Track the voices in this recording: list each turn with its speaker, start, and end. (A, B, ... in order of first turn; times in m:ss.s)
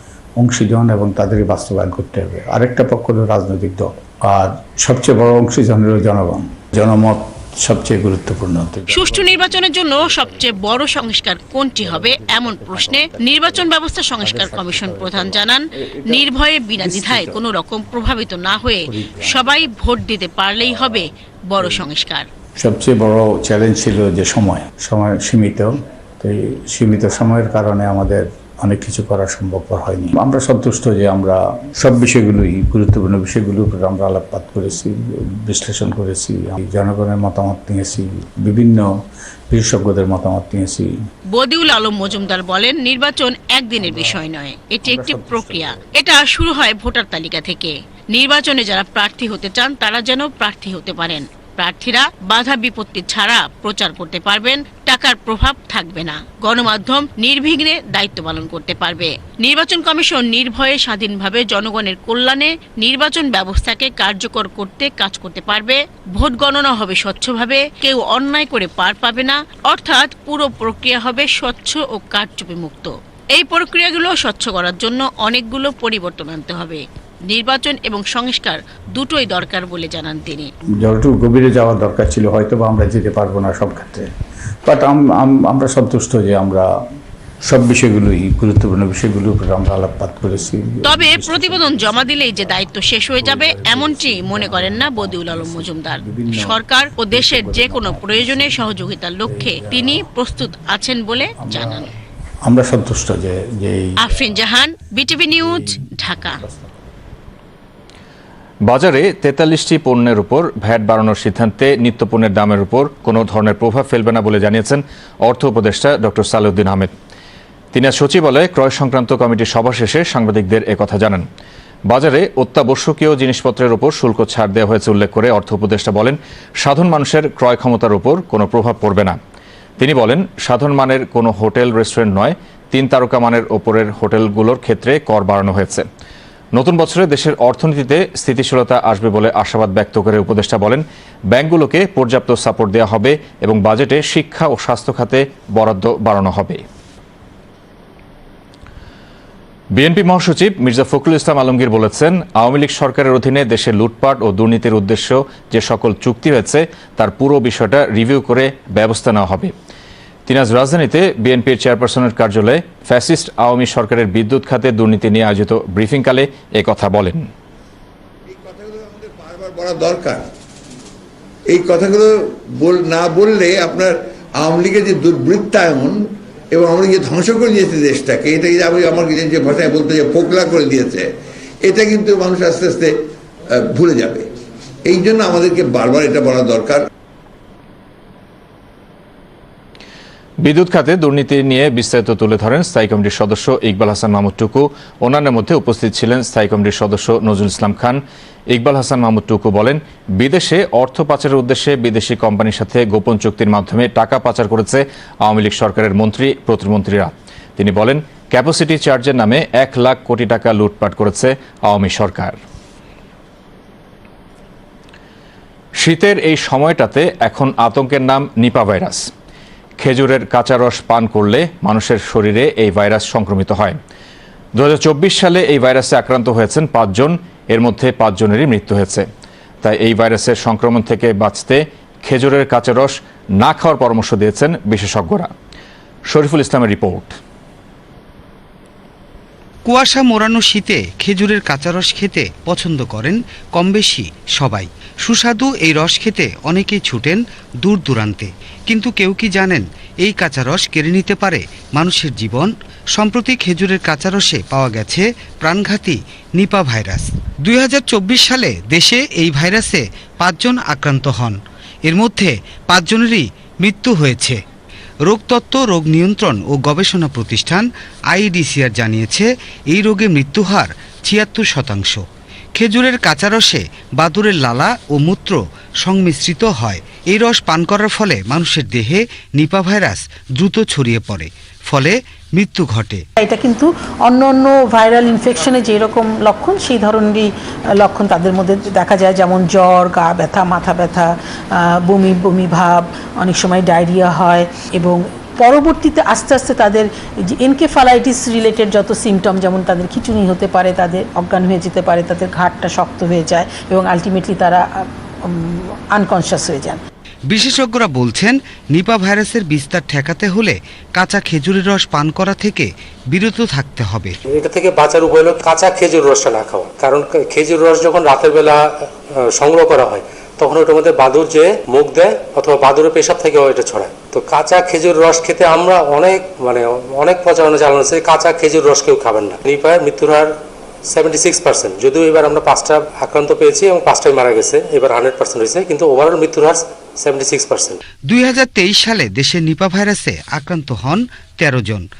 0:00.4-0:11.1 A
0:08.9-0:22.2 B
0:11.8-0:13.7 A
0:14.2-0:16.3 A
0:16.8-0:17.4 A
0:18.9-0:19.7 A
0:22.6-0:38.8 A
0:39.5-0:40.9 A
0:41.3-1:20.5 B
0:43.8-0:44.2 A
0:44.8-0:45.7 A
1:20.8-1:24.1 A
1:24.6-1:26.6 A
1:27.5-1:32.7 A
1:30.8-1:41.9 B
1:33.2-1:36.6 A
1:37.1-1:38.6 A
1:39.2-1:40.0 A
1:41.4-1:41.8 A
1:42.4-1:44.5 A
1:44.0-1:46.4 B
1:45.4-1:45.6 A
1:46.2-1:46.7 A
1:48.7-1:56.9 C
1:57.7-2:01.2 C
2:01.9-2:09.2 C
2:09.8-2:15.8 C
2:16.6-2:26.6 C
2:29.7-2:39.5 C
2:40.3-2:47.2 C
2:48.3-2:50.2 D
2:51.5-2:52.0 D
2:52.6-2:55.9 D
2:56.6-3:01.0 D
3:01.6-3:02.9 D
3:03.7-3:04.2 D
3:04.9-3:06.8 D
3:10.4-3:32.4 C
3:35.8-3:39.1 C
3:39.8-3:43.8 C
3:44.6-3:49.0 C
3:49.6-3:55.3 C
3:56.1-3:57.2 C
3:59.7-4:07.2 E
4:07.7-4:12.4 E
4:13.0-4:14.9 E
4:15.4-4:21.2 E
4:21.9-4:24.3 E
4:25.1-4:27.6 E
4:28.1-4:32.0 E
4:32.6-4:35.3 E
4:35.8-4:43.0 E
4:43.2-5:06.8 F
5:07.3-5:14.1 E
5:14.3-5:18.6 G
5:19.2-5:30.3 G
5:30.9-5:37.8 G
5:38.1-5:41.8 E